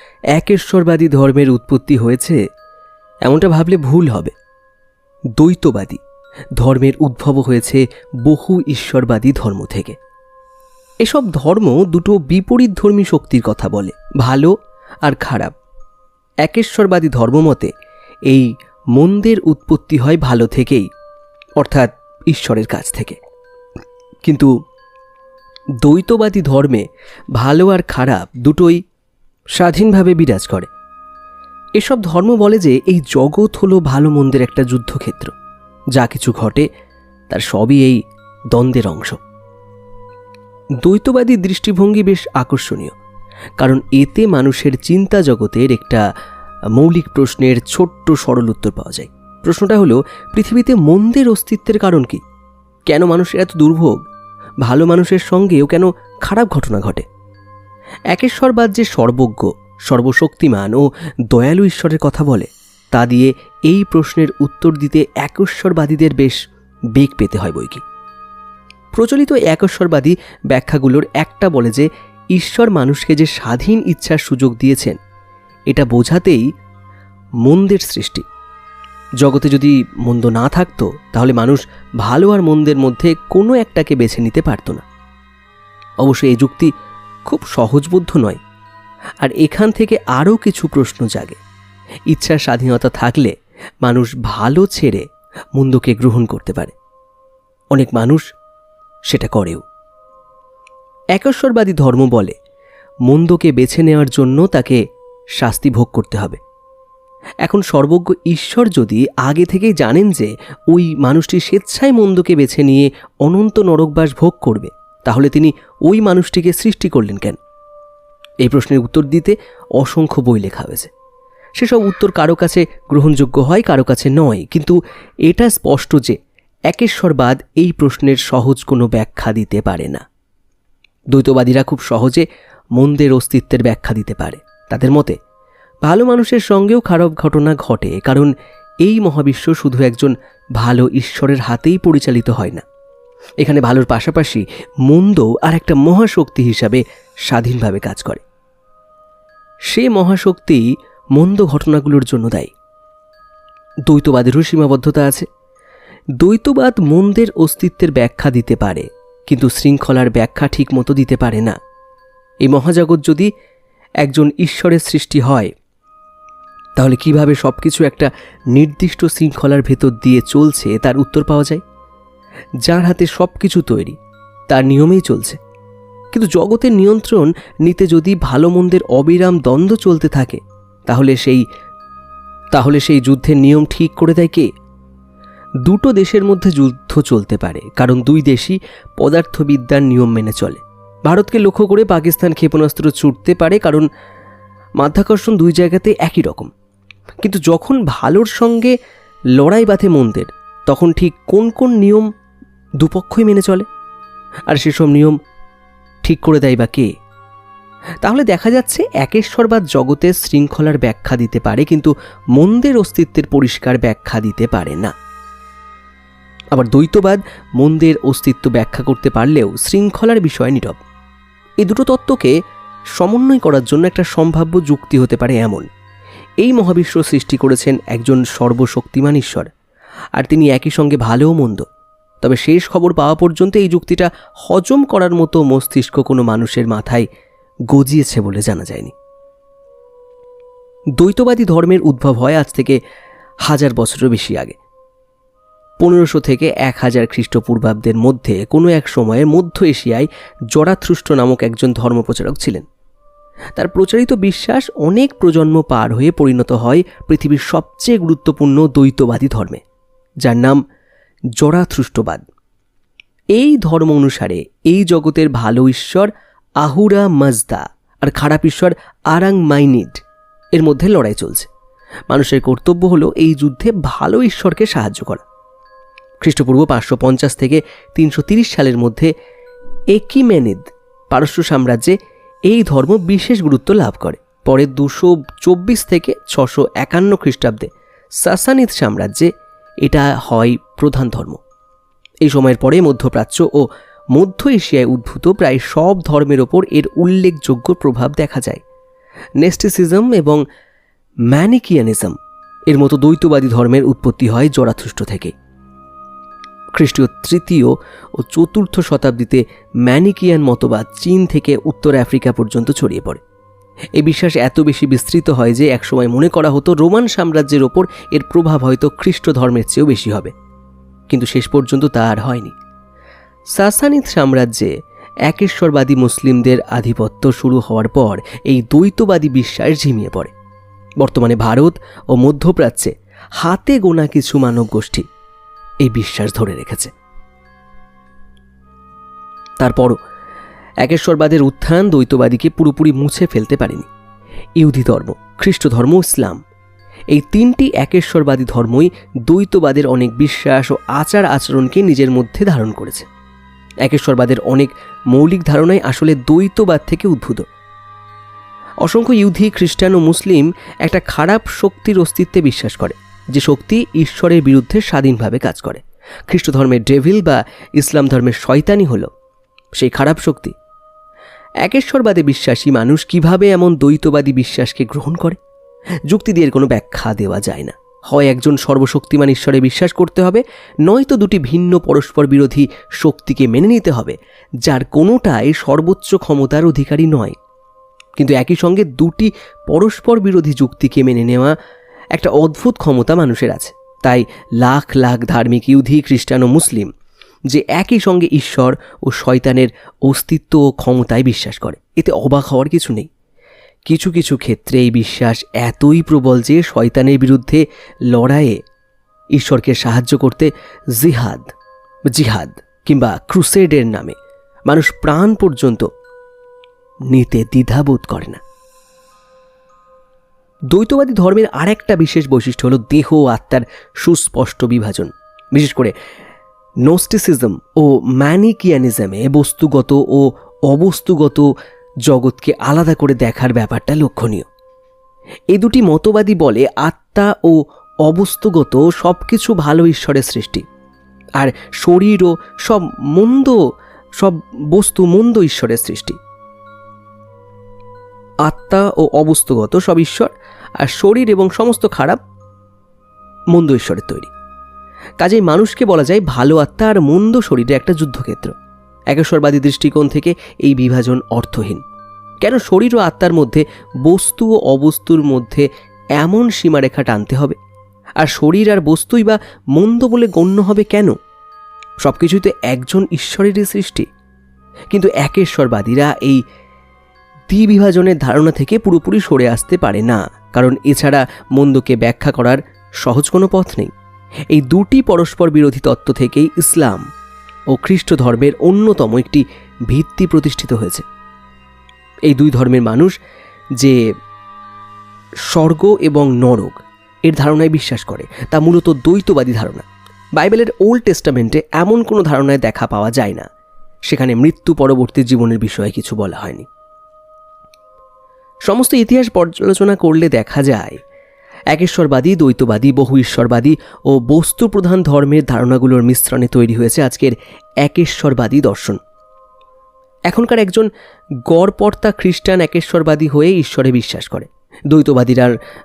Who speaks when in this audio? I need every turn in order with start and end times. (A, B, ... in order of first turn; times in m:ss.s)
0:00.3-0:02.4 A
0:03.2-0:04.3 A
0:05.4-0:06.0 A
0:06.6-0:10.0 A
0:11.0-0:14.5 A
0:15.0-0:15.5 A
0:16.4-0:17.7 A
0:18.3-0:20.9 A
0:21.6-0:23.2 A
0:24.2-0:24.5 A
0:25.8-0:28.8 A
0:29.5-0:30.7 A
0:31.8-0:35.3 A
0:35.9-0:36.6 A
0:37.3-0:39.2 A
0:40.8-0:43.0 A
0:43.6-0:46.0 A
0:46.8-0:52.2 A
0:52.9-0:54.0 A
0:54.6-0:57.0 A
0:58.1-1:06.4 A
1:06.9-1:07.8 A
1:08.9-1:15.0 A
1:15.7-1:16.4 A
1:17.4-1:18.2 A
1:19.2-1:24.8 A
1:26.0-1:26.7 A
1:27.3-1:28.4 A
1:29.2-1:31.4 A
1:32.1-1:33.3 A
1:33.8-1:36.7 A
1:37.7-1:38.2 A
1:39.1-1:39.6 A
1:41.1-1:42.3 A
1:43.1-1:44.8 A
1:45.4-1:46.4 A
1:47.4-1:57.4 A
1:58.4-2:00.9 A
2:01.6-2:06.2 A
2:06.7-2:10.0 A
2:11.1-2:15.2 A
2:15.8-2:22.6 A
2:23.4-2:28.2 A
2:29.7-2:30.6 A
2:31.1-2:32.5 A
2:33.9-2:35.2 A
2:36.2-2:41.6 A
2:42.4-2:43.3 A
2:44.0-2:45.5 A
2:46.8-2:51.6 A
2:52.6-2:54.0 A
2:54.5-2:55.4 A
2:56.1-3:01.4 A
3:02.5-3:04.5 A
3:05.6-3:13.9 A
3:14.8-3:16.5 A
3:17.2-3:18.7 A
3:19.4-3:22.1 A
3:22.8-3:23.6 A
3:24.5-3:25.2 A
3:26.0-3:26.9 A
3:28.0-3:34.9 A
3:36.5-3:40.8 A
3:41.6-3:42.3 A
3:43.0-3:45.7 A
3:46.4-3:49.5 A
3:50.2-3:51.6 A
3:52.2-3:57.0 A
3:57.7-3:58.9 A
4:01.0-4:02.8 A
4:03.4-4:04.6 A
4:05.8-4:12.6 A
4:13.6-4:19.6 A
4:20.2-4:20.6 A
4:21.4-4:22.2 A
4:23.3-4:30.0 A
4:30.5-4:31.5 A
4:32.1-4:35.2 A
4:36.2-4:39.1 A
4:39.9-4:41.9 A
4:42.5-4:47.7 A
4:48.2-4:49.3 A
4:49.8-4:51.4 A
4:52.2-4:58.6 A
4:59.4-5:00.4 A
5:01.3-5:02.2 A
5:02.7-5:05.3 A
5:06.7-5:13.2 A
5:14.0-5:20.3 A
5:21.1-5:22.5 A
5:23.5-5:24.7 A
5:25.3-5:30.3 A
5:31.0-5:35.0 A
5:35.8-5:36.9 A
5:39.6-5:40.0 A
5:40.8-5:43.9 A
5:44.6-5:46.4 A
5:47.1-5:53.1 A
5:53.8-5:57.4 A
5:58.8-6:09.1 A
6:09.8-6:10.5 A
6:11.6-6:15.4 A
6:16.1-6:27.4 A
6:28.2-6:31.5 A
6:32.1-6:36.9 A
6:37.5-6:43.1 A
6:43.8-6:48.6 A
6:49.3-6:51.5 A
6:52.1-6:54.2 A
6:54.7-6:55.9 A
6:57.1-6:58.4 A
7:00.7-7:05.9 A
7:06.8-7:11.5 A
7:12.0-7:14.5 A
7:15.5-7:20.6 A
7:21.4-7:23.6 A
7:24.2-7:26.2 A
7:28.4-7:32.2 A
7:33.5-7:34.3 A
7:35.2-7:38.5 A
7:39.1-7:41.8 A
7:42.4-7:47.6 A
7:48.2-7:51.2 A
7:52.0-7:54.1 A
7:54.9-7:56.4 A
7:57.5-8:03.9 A
8:04.5-8:07.0 A
8:07.7-8:11.0 A
8:12.3-8:13.1 A
8:15.5-8:23.5 A
8:24.1-8:26.7 A
8:28.6-8:31.0 A
8:31.7-8:39.0 A
8:40.3-8:40.9 A
8:41.5-8:45.5 A